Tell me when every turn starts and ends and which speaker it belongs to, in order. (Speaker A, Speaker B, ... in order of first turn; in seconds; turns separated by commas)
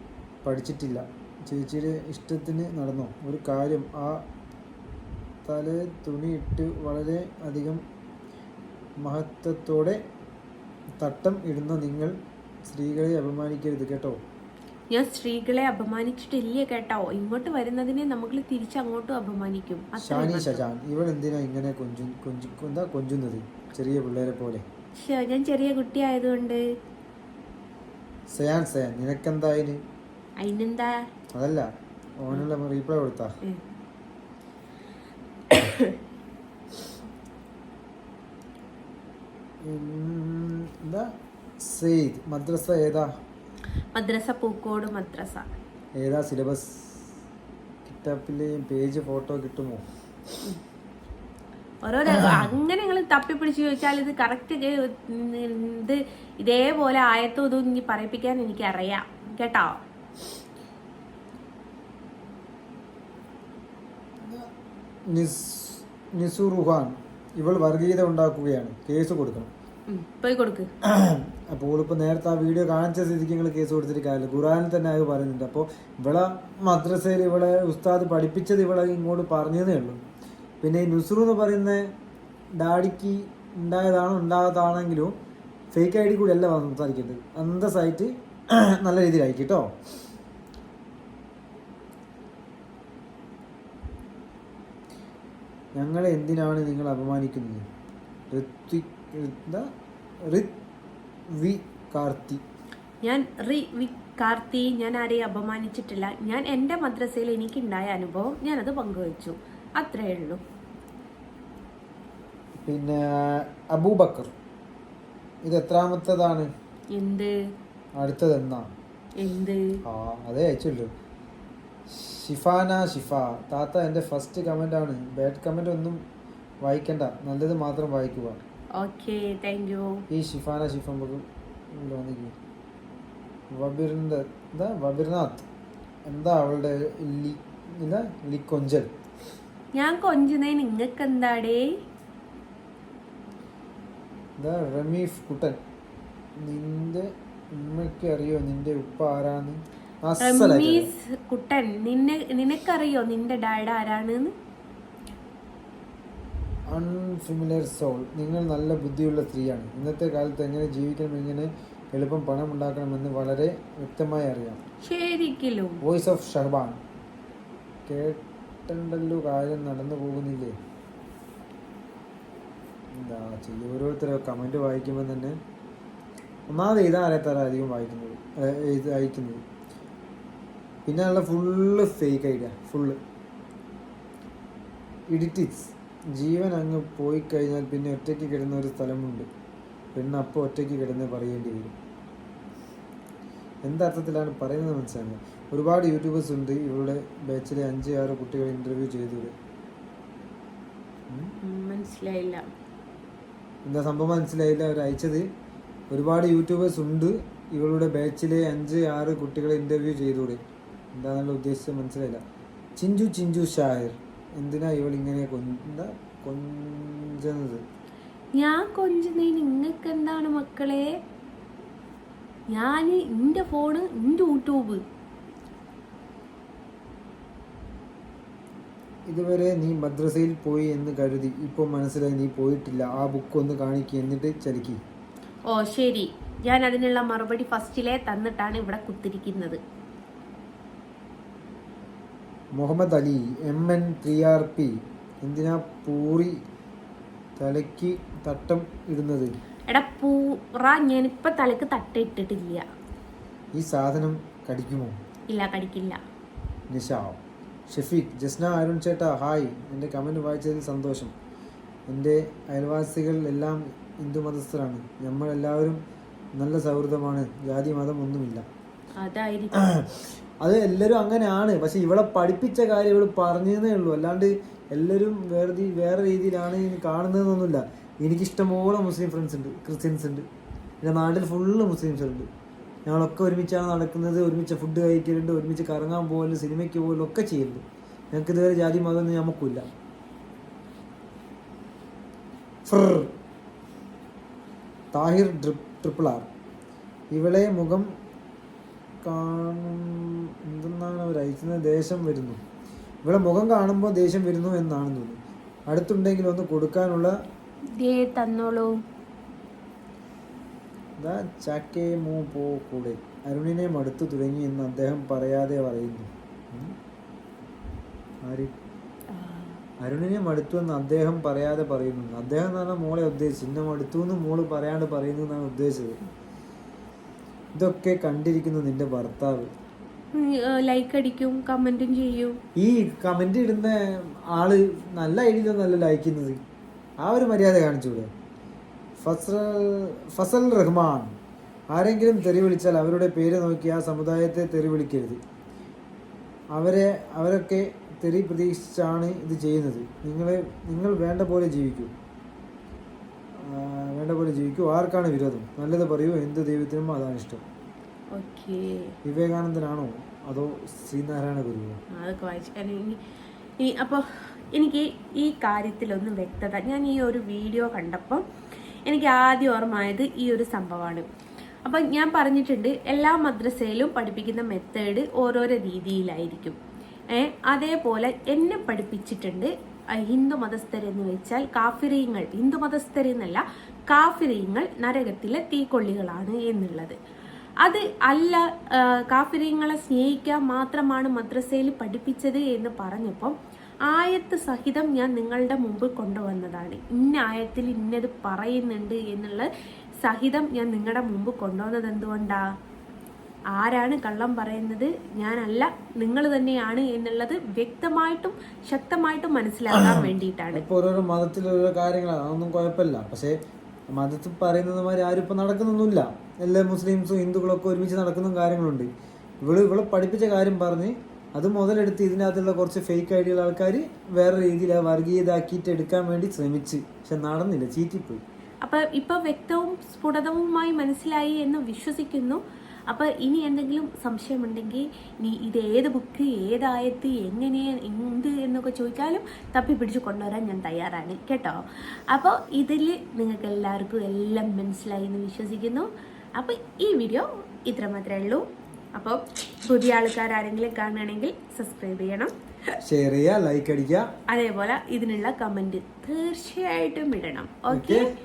Speaker A: 0.5-4.2, Speaker A: 5.5-7.8, Speaker A: 9.0-10.0, Speaker A: 11.0-12.1, Speaker A: 12.7-14.2, Speaker B: 14.9-20.6, Speaker A: 20.0-24.6, Speaker B: 25.0-26.6, Speaker A: 28.3-29.8, Speaker B: 30.4-30.9, Speaker A: 31.3-31.7, Speaker A: 32.2-33.3, Speaker B: 35.5-36.0, Speaker A: 39.6-41.1, Speaker A: 41.6-43.1, Speaker B: 44.0-45.5, Speaker A: 46.0-47.0, Speaker A: 47.9-49.8, Speaker B: 51.8-59.8, Speaker A: 52.1-52.5, Speaker A: 64.2-64.5, Speaker A: 65.1-69.5, Speaker B: 69.9-70.7, Speaker A: 70.8-80.0, Speaker A: 80.6-81.8, Speaker A: 82.6-85.1, Speaker A: 85.7-89.7, Speaker A: 95.8-97.6, Speaker A: 98.3-99.7, Speaker A: 100.2-100.5, Speaker A: 101.3-102.4, Speaker B: 103.0-110.4, Speaker A: 112.6-114.3, Speaker A: 115.4-116.5, Speaker B: 116.9-117.3, Speaker A: 118.0-118.7, Speaker B: 119.2-119.6, Speaker A: 119.8-120.9, Speaker A: 121.9-126.0, Speaker A: 126.6-128.4, Speaker B: 128.8-130.0, Speaker A: 130.1-132.3, Speaker A: 133.5-135.5, Speaker A: 136.1-138.9, Speaker B: 139.8-141.6, Speaker A: 144.4-145.6, Speaker A: 146.4-150.9, Speaker B: 150.2-154.3, Speaker A: 156.7-164.6, Speaker B: 164.8-165.8, Speaker A: 165.8-166.8, Speaker A: 167.9-170.6, Speaker A: 172.9-175.4, Speaker A: 176.5-179.4, Speaker A: 180.9-183.0, Speaker A: 185.1-189.3, Speaker A: 189.9-191.7, Speaker A: 193.6-199.3, Speaker B: 201.4-202.4, Speaker A: 203.7-205.2, Speaker A: 205.9-210.4, Speaker A: 211.0-212.2, Speaker A: 212.8-217.6, Speaker B: 218.3-220.9, Speaker B: 222.5-224.8, Speaker A: 229.1-234.8, Speaker B: 235.5-239.6, Speaker A: 242.6-246.4, Speaker A: 247.4-249.3, Speaker B: 249.7-252.6, Speaker A: 253.6-255.0, Speaker B: 255.3-256.0, Speaker A: 256.7-261.1, Speaker A: 261.9-265.8, Speaker A: 266.4-268.4, Speaker B: 269.0-269.6, Speaker A: 269.6-280.3, Speaker A: 280.8-282.3, Speaker A: 282.9-289.7, Speaker A: 292.7-293.1, Speaker A: 294.9-296.3, Speaker A: 297.1-297.9, Speaker A: 299.0-302.4, Speaker A: 303.0-307.1, Speaker B: 307.8-308.7, Speaker A: 311.0-316.8, Speaker A: 318.2-318.5, Speaker B: 319.1-319.6, Speaker A: 319.8-326.0, Speaker A: 327.6-329.5, Speaker B: 330.1-332.4, Speaker A: 332.6-336.4, Speaker A: 337.0-338.1, Speaker A: 339.0-341.2, Speaker A: 341.7-345.2, Speaker A: 346.5-351.9, Speaker A: 353.4-357.4, Speaker B: 358.1-358.9, Speaker A: 359.1-361.8, Speaker B: 362.0-363.0, Speaker B: 363.6-368.2, Speaker B: 368.9-371.1, Speaker B: 371.6-376.6, Speaker B: 377.1-379.5, Speaker B: 380.1-387.0, Speaker B: 387.6-393.4, Speaker B: 393.9-399.5, Speaker B: 400.0-402.4, Speaker B: 403.6-410.6, Speaker A: 409.8-413.4, Speaker A: 413.9-418.9, Speaker A: 419.4-428.2, Speaker B: 428.6-441.6, Speaker B: 442.1-448.4, Speaker B: 449.0-452.3, Speaker A: 452.8-454.1, Speaker B: 454.3-458.1, Speaker A: 457.7-458.1